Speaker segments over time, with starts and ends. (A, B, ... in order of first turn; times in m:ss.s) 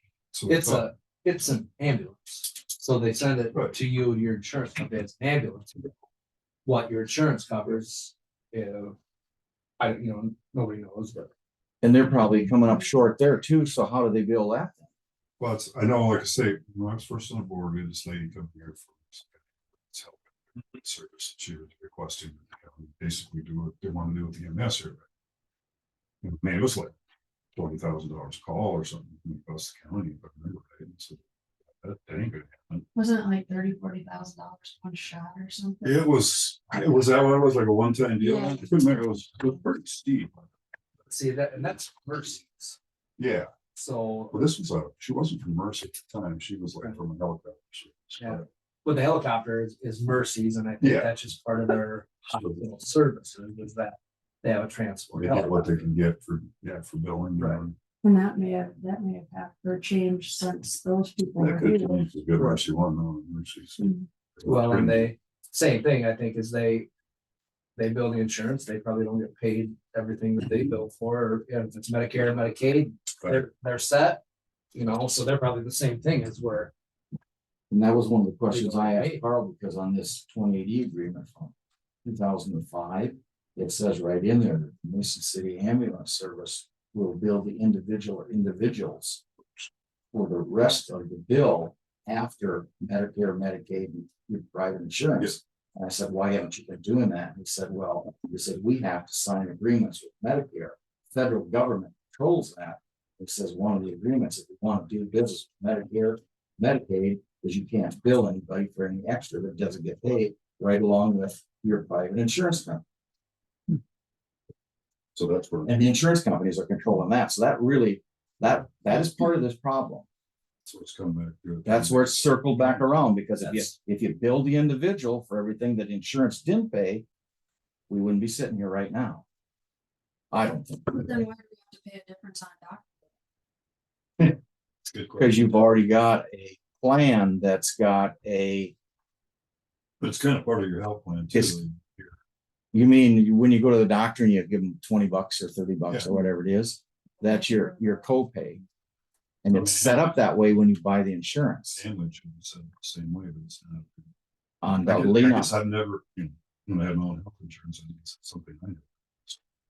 0:00.3-0:00.9 A
0:00.5-0:05.9 B
0:06.6-0:09.0 B
0:09.8-0:11.3 B
0:11.8-0:14.9 C
0:15.4-0:25.0 A
0:26.2-0:26.9 A
0:27.5-0:31.2 A
0:31.7-0:32.8 A
0:32.9-0:36.1 D
0:35.8-0:40.5 A
0:38.2-0:38.7 D
0:41.0-0:42.8 B
0:43.2-0:43.5 A
0:43.8-0:44.5 B
0:44.3-0:48.4 A
0:48.2-0:55.8 B
0:50.8-0:51.2 A
0:52.3-0:52.6 A
0:55.1-0:57.8 A
0:58.0-1:02.0 D
1:01.4-1:05.1 A
1:03.8-1:04.1 D
1:04.4-1:06.9 B
1:07.8-1:14.2 B
1:14.7-1:16.7 B
1:17.7-1:29.2 C
1:18.5-1:19.2 B
1:30.1-1:52.8 C
1:55.2-1:55.7 A
1:55.6-2:00.1 C
2:00.6-2:02.9 A
2:01.6-2:07.0 C
2:03.4-2:03.7 B
2:07.9-2:09.2 C
2:10.3-2:11.3 C
2:10.9-2:13.0 D
2:14.9-2:15.9 A
2:15.2-2:18.7 C
2:20.0-2:22.2 A
2:21.3-2:21.6 C
2:22.7-2:28.6 C
2:27.2-2:28.0 D
2:29.4-2:31.8 C
2:29.5-2:30.2 A
2:31.7-2:34.1 A
2:34.6-2:35.5 C
2:34.8-2:39.4 A